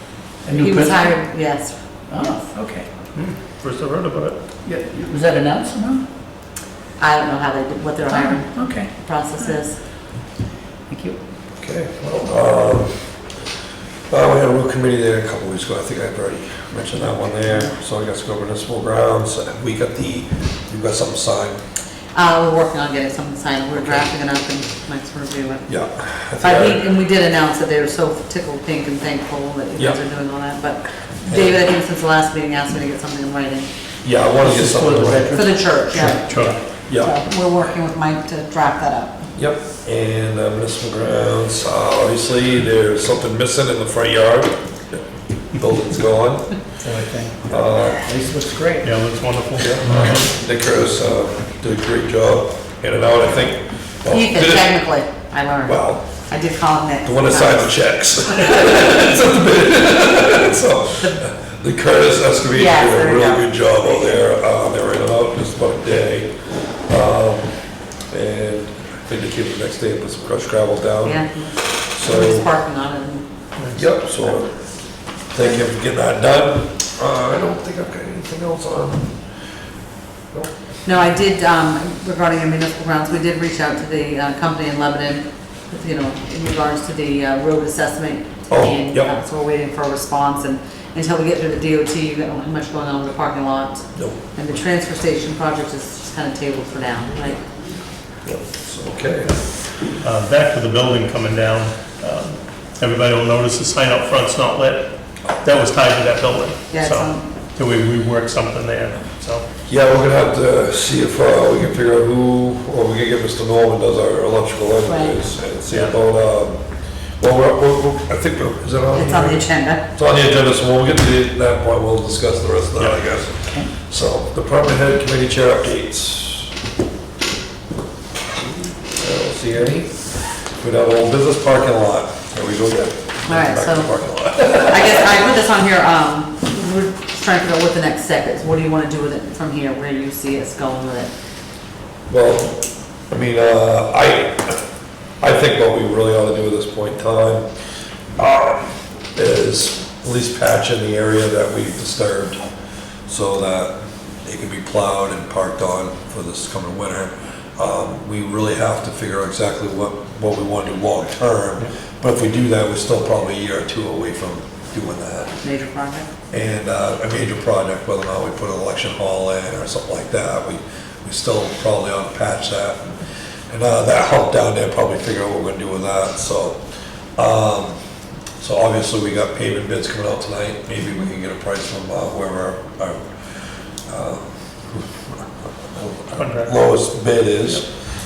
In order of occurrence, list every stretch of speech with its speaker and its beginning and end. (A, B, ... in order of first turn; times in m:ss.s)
0:00.4-0:01.1 A
0:00.5-0:02.4 B
0:02.1-0:02.9 A
0:03.1-0:04.4 C
0:04.6-0:06.0 A
0:07.0-0:09.8 B
0:08.1-0:09.6 A
0:10.9-0:11.2 A
0:11.6-0:13.1 D
0:14.1-0:21.6 D
0:22.1-0:25.6 B
0:25.7-0:26.8 D
0:26.4-0:33.7 B
0:31.3-0:31.6 D
0:34.0-0:35.5 D
0:34.4-0:36.6 A
0:35.3-0:36.2 B
0:36.2-0:36.6 C
0:36.9-0:37.2 D
0:37.0-0:39.3 B
0:39.4-0:45.0 D
0:45.5-0:46.5 D
0:46.8-0:48.9 A
0:47.5-0:48.0 D
0:48.8-0:50.2 C
0:49.6-0:54.8 D
0:54.1-0:57.8 B
0:55.6-0:56.0 D
0:57.0-1:06.3 D
0:58.3-0:58.7 B
1:02.5-1:04.2 B
1:06.9-1:07.5 D
1:08.1-1:12.5 D
1:11.0-1:13.3 B
1:13.6-1:13.8 C
1:13.7-1:14.5 D
1:15.3-1:19.2 D
1:20.8-1:37.4 B
1:28.5-1:29.1 D
1:38.2-1:39.5 D
1:40.0-1:49.4 C
1:46.7-1:47.3 B
1:49.7-1:56.6 D
1:54.9-1:55.2 B
1:55.7-1:56.0 C
1:57.2-2:06.5 D
1:58.9-1:59.8 B
2:08.4-2:15.2 D
2:13.3-2:13.9 B
2:14.4-2:21.1 B
2:22.1-2:24.6 D
2:25.2-2:27.5 D
2:28.2-2:32.4 D
2:33.1-2:33.7 D
2:34.2-2:45.4 D
2:45.4-2:46.1 B
2:46.3-2:56.6 D
2:57.2-2:57.8 D
2:58.4-3:03.0 D
3:03.9-3:07.7 D
3:06.1-3:06.5 C